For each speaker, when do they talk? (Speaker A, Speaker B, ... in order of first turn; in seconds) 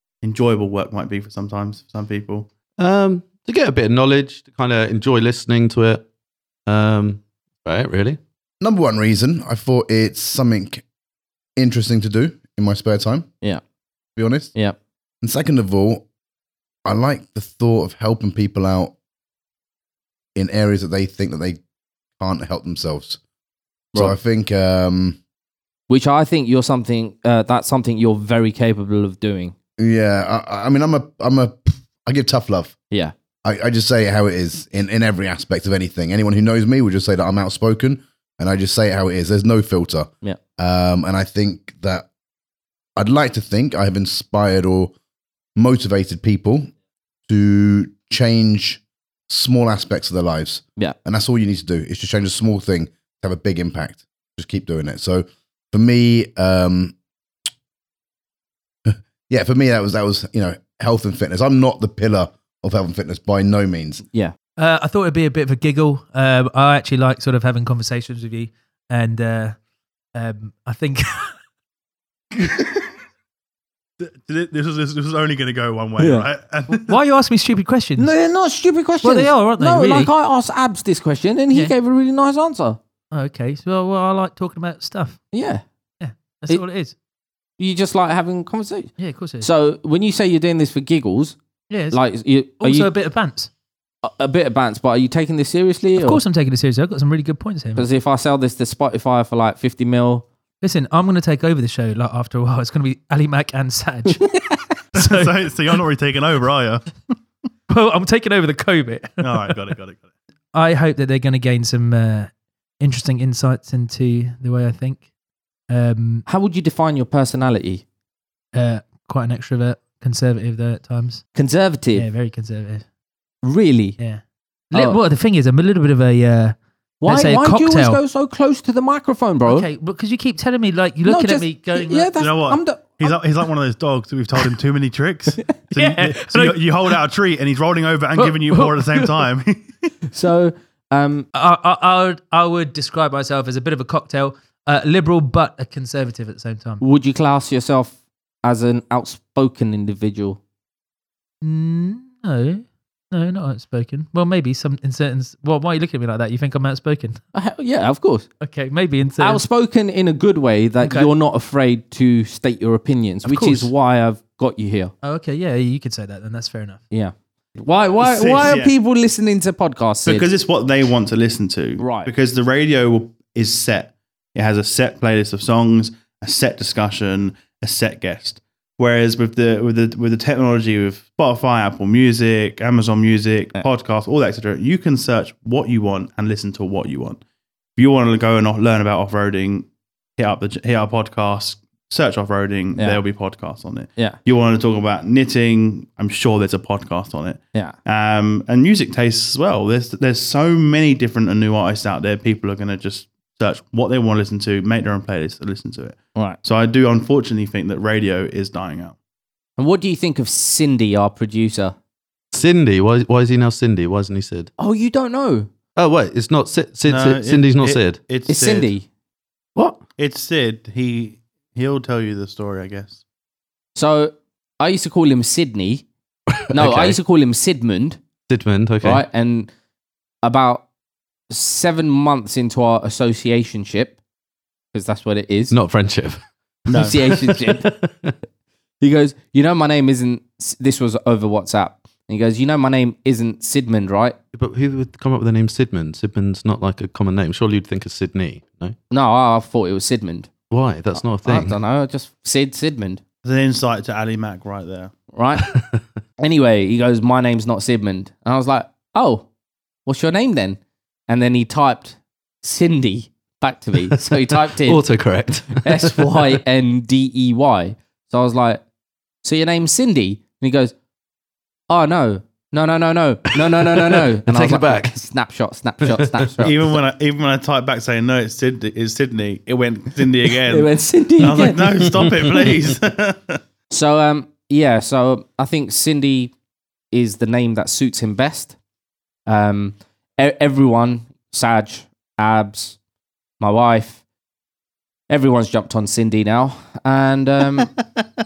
Speaker A: 0.2-2.5, 72.4-72.9, 74.0-77.0, 105.0-107.0, 109.2-110.1, 132.2-139.8, 168.0-168.7, 170.1-187.2, 187.8-209.0, 216.9-218.7, 220.0-223.0, 236.7-236.9, 253.2-254.9, 276.4-283.4
Speaker B: 2.8-6.1, 6.7-8.2, 212.3-214.5, 215.8-218.0, 226.3-227.0, 228.3-229.1, 235.5-238.1, 244.3-248.8, 250.5-251.6, 255.5-255.8, 263.9-266.3, 273.8-274.9, 275.8-276.4
Speaker C: 8.6-10.8, 11.6-13.3, 14.2-14.6, 15.2-16.1, 16.9-18.9, 20.4-21.6, 22.2-23.2, 23.9-25.2, 29.8-32.8, 33.4-42.1, 43.0-44.9, 45.6-46.7, 47.3-57.0, 58.9-64.0
Speaker D: 25.9-29.6, 76.0-76.3, 78.0-82.8, 85.3-85.6, 87.6-91.4, 91.9-92.9, 94.0-96.2, 97.8-100.2, 116.3-117.8, 121.3-122.1, 123.4-124.0, 127.0-129.7, 131.1-133.0, 140.1-141.3, 146.8-150.4, 157.3-158.3, 159.2-164.9, 166.9-170.3, 171.8-172.1, 209.6-211.8, 214.6-215.5, 218.3-218.9, 223.8-225.9, 226.5-228.0, 228.8-229.5, 230.2-230.7, 231.3-234.0, 234.7-235.6, 236.7-237.7, 238.8-244.2, 248.9-250.3, 251.0-253.0, 255.1-255.5, 256.2-259.3, 259.9-264.9, 265.6-268.6, 269.2-270.7, 271.7-276.7, 280.5-281.7, 283.7-286.3, 286.9-288.6, 289.3-292.8, 293.4-294.0, 295.1-297.7
Speaker E: 64.6-69.6, 70.2-71.3, 76.7-78.1, 79.0-80.1, 83.1-85.2, 86.0-87.0, 89.0-89.5, 91.7-92.0, 92.6-93.5, 96.0-97.9, 100.6-104.2, 105.0-105.4, 107.7-109.7, 110.5-115.0, 115.7-116.2, 118.5-121.2, 121.9-122.9, 124.0-128.0, 129.5-132.2, 135.9-137.0, 138.2-139.3, 141.3-146.8, 151.4-157.2, 158.4-159.4, 160.8-161.2, 163.2-163.7, 165.0-166.8